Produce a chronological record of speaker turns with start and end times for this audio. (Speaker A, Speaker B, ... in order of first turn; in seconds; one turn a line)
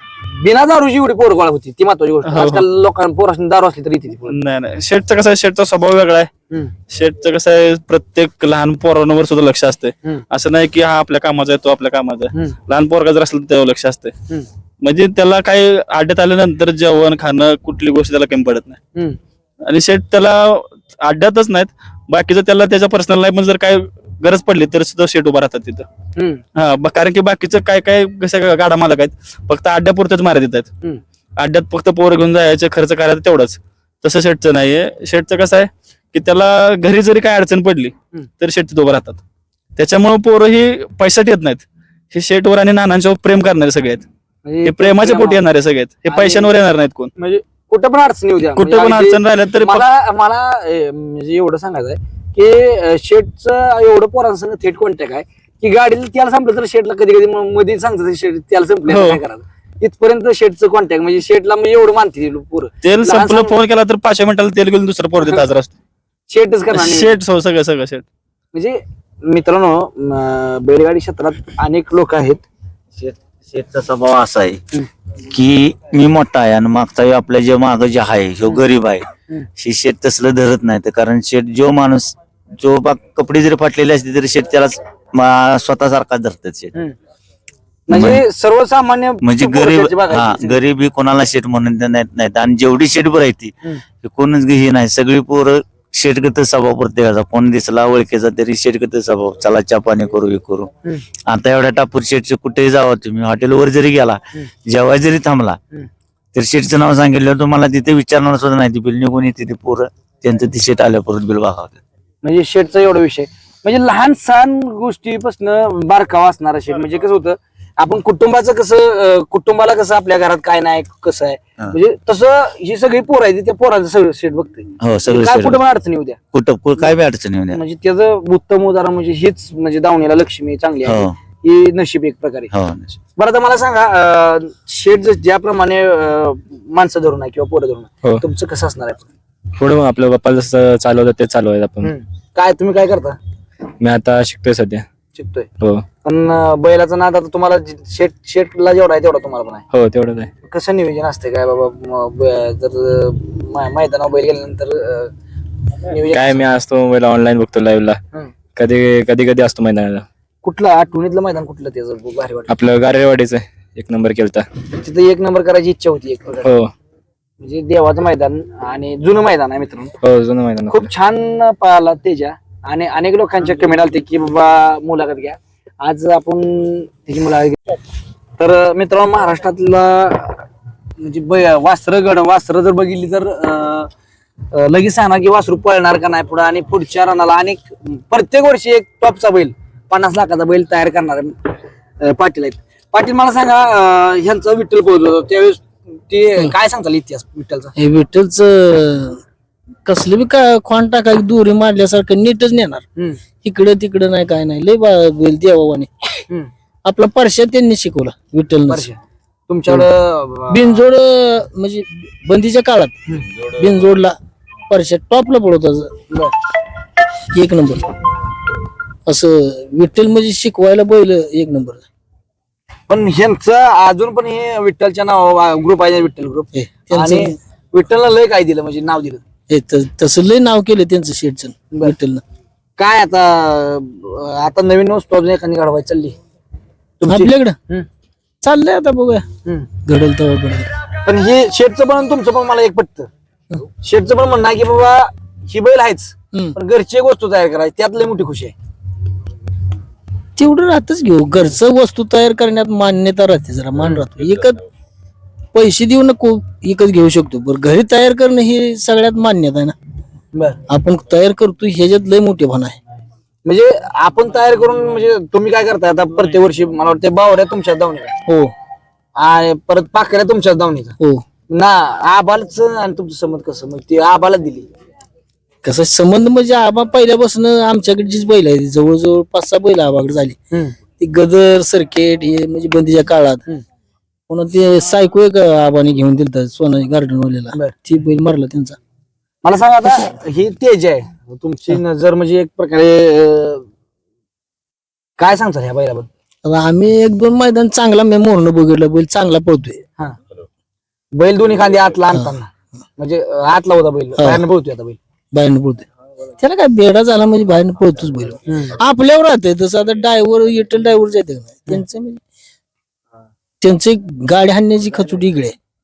Speaker A: 0.2-4.3
Speaker B: 2.2-2.6
Speaker B: 4.3-6.3
Speaker B: 6.9-14.1
Speaker B: 14.8-18.8
Speaker B: 19.6-25.9
Speaker A: 26.2-26.4
Speaker B: 26.6-30.7
Speaker B: 31.4-39.2
Speaker B: 39.8-44.0
Speaker A: 44.4-45.4
Speaker B: 44.6-47.1
Speaker A: 46.1-46.5
Speaker A: 47.2-63.5
Speaker B: 48.5-49.8
Speaker B: 58.9-59.2
Speaker B: 62.8-65.7
Speaker A: 66.3-67.2
Speaker B: 66.7-68.0
Speaker A: 68.5-72.4
Speaker C: 73.0-74.6
Speaker C: 75.3-86.7
Speaker A: 87.9-90.6
Speaker C: 87.9-88.2
Speaker C: 89.2-100.7
Speaker C: 101.3-105.6
Speaker C: 106.3-111.8
Speaker A: 112.2-126.2
Speaker C: 124.8-125.6
Speaker C: 126.3-127.6
Speaker A: 127.5-132.5
Speaker C: 130.8-131.1
Speaker C: 132.5-133.0
Speaker A: 133.2-139.1
Speaker D: 139.6-141.9
Speaker A: 141.8-143.2
Speaker D: 143.8-144.8
Speaker A: 145.1-145.5
Speaker D: 145.6-145.8
Speaker A: 146.0-149.6
Speaker D: 149.7-150.3
Speaker A: 150.4-155.1
Speaker A: 155.8-156.4
Speaker D: 156.0-158.0
Speaker D: 158.6-160.1
Speaker A: 160.4-162.5
Speaker D: 162.5-164.5
Speaker A: 164.7-166.5
Speaker D: 166.4-166.7
Speaker A: 167.4-169.9
Speaker D: 170.0-170.9
Speaker A: 170.7-177.8
Speaker A: 178.4-180.4
Speaker A: 181.0-183.9
Speaker A: 184.5-191.3
Speaker A: 192.0-197.7
Speaker E: 197.8-199.2
Speaker E: 199.8-202.8
Speaker A: 203.0-203.2
Speaker E: 203.4-206.2
Speaker E: 206.8-208.8
Speaker A: 208.7-208.9
Speaker A: 209.5-210.8
Speaker E: 210.5-212.9
Speaker E: 213.5-214.1
Speaker E: 214.7-215.9
Speaker E: 217.3-217.9
Speaker E: 219.1-221.8
Speaker A: 222.9-229.2
Speaker E: 226.5-227.3
Speaker E: 229.5-232.2
Speaker A: 232.8-236.2
Speaker A: 237.0-237.9
Speaker E: 237.1-237.6
Speaker E: 238.4-239.3
Speaker E: 239.8-240.7
Speaker A: 240.9-243.1
Speaker A: 243.7-248.5
Speaker E: 250.4-254.6
Speaker A: 253.8-254.0
Speaker E: 255.5-259.7
Speaker A: 260.3-260.6
Speaker E: 260.7-262.8
Speaker A: 263.4-268.1
Speaker E: 268.2-268.5
Speaker A: 269.1-274.7
Speaker E: 271.0-271.2
Speaker E: 275.6-280.4
Speaker A: 280.5-280.8
Speaker E: 281.0-283.4
Speaker E: 284.3-288.8
Speaker A: 289.4-293.6
Speaker A: 295.2-296.1
Speaker E: 296.4-299.8
Speaker A: 301.1-305.0
Speaker E: 304.2-304.4
Speaker E: 305.3-305.9
Speaker E: 306.4-312.2
Speaker A: 308.5-308.7
Speaker E: 313.6-315.5